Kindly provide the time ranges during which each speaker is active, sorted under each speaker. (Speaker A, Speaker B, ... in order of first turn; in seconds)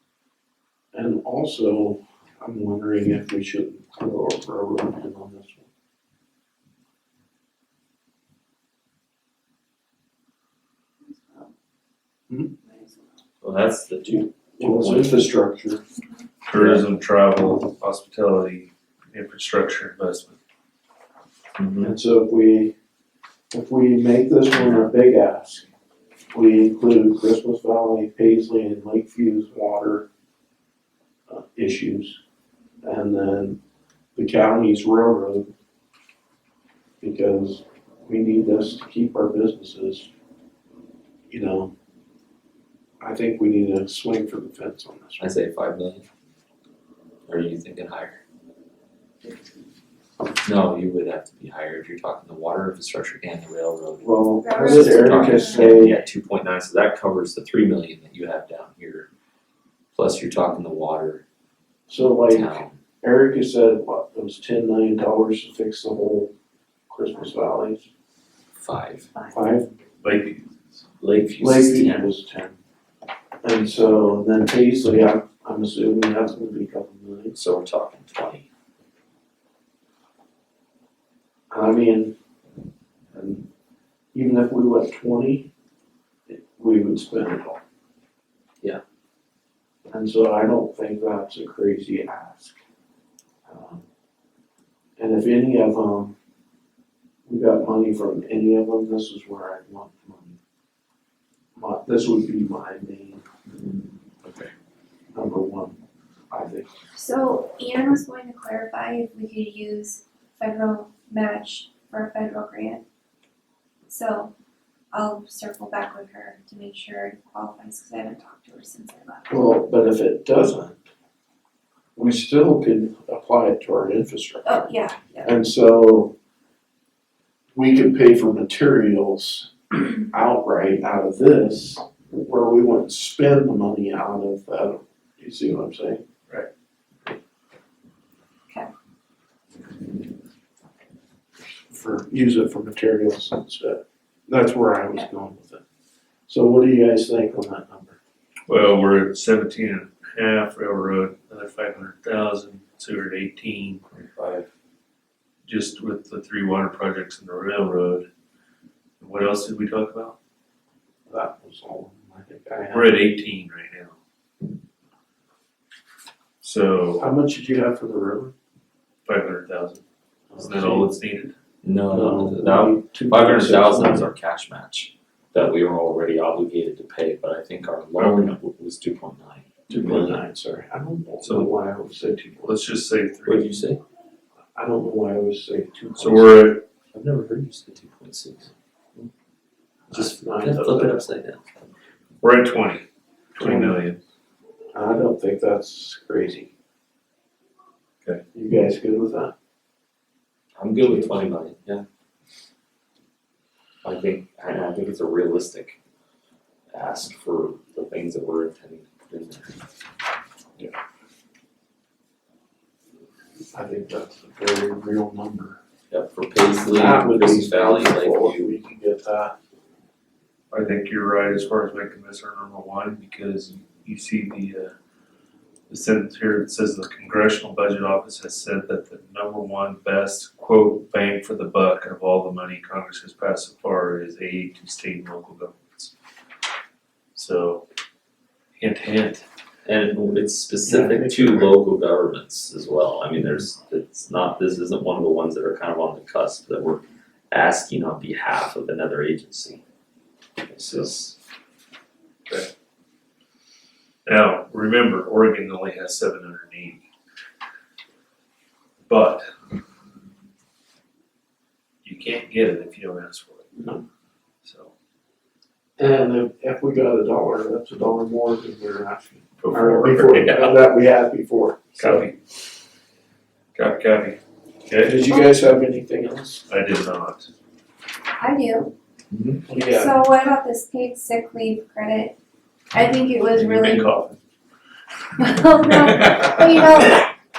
Speaker A: 0.9-5.7, 14.6-15.8, 21.8-22.7, 23.5-25.7, 26.3-30.1, 31.3-32.2, 32.8-33.6, 34.1-35.5, 37.0-40.1, 41.3-41.7, 43.0-45.4, 54.0-56.0, 61.9-66.3, 66.9-67.9, 69.3-69.7, 71.4-72.6, 73.4-77.4, 81.5-82.1, 83.1-83.5, 84.1-85.5, 86.3-87.6, 89.9-92.6, 93.5-93.8, 95.0-96.1, 97.2-100.4, 101.5-103.2, 105.1-105.8, 106.3-106.7, 119.3-120.8, 122.0-124.6, 125.2-126.1, 127.5-136.0, 141.7-145.6, 146.3-148.0, 161.1-163.0, 167.0-168.3, 170.3-170.9, 171.9-174.1, 179.7-182.6, 184.5-186.4, 189.9-191.0, 193.4-193.8, 194.7-196.5, 198.3-199.3, 213.5-215.6, 216.6-219.3, 240.6-241.5, 263.5-263.8, 265.8-272.1, 274.8-276.4, 279.4-280.0
Speaker B: 11.0-11.5, 12.6-13.2, 54.4-55.8, 69.1-69.4, 106.9-112.8, 113.8-114.3, 114.9-119.5, 124.4-125.3, 278.2-278.7, 279.7-282.2, 282.7-283.9, 285.2-287.1
Speaker C: 13.4-15.3, 16.5-16.8, 21.6-21.9, 24.6-24.9, 45.2-46.0, 47.3-48.2, 50.4-59.1, 59.9-61.2, 62.3-62.8, 68.6-69.1, 71.0-72.1, 77.3-78.5, 153.9-154.5, 171.6-180.2, 183.2-183.8, 186.9-188.5, 189.9-191.4, 200.6-201.8, 203.8-205.8, 206.7-209.5, 215.9-218.4, 239.6-249.6, 250.4-251.2, 279.1-279.4
Speaker D: 16.4-20.4, 70.0-70.8, 148.5-153.8, 155.5-158.1, 159.0-160.2, 162.7-164.0, 166.4-167.1, 169.1-169.8, 170.3-171.3, 177.9-178.3, 181.2-181.5, 182.4-183.5, 186.0-186.6, 192.2-194.0, 220.5-224.7, 225.7-235.9, 237.1-237.7, 238.6-239.2, 250.7-250.9, 254.1-256.8, 258.9-259.3, 261.8-263.5, 264.4-264.7, 269.4-270.6, 271.8-272.2, 273.5-275.0, 276.5-277.3, 283.3-284.2, 285.6-287.0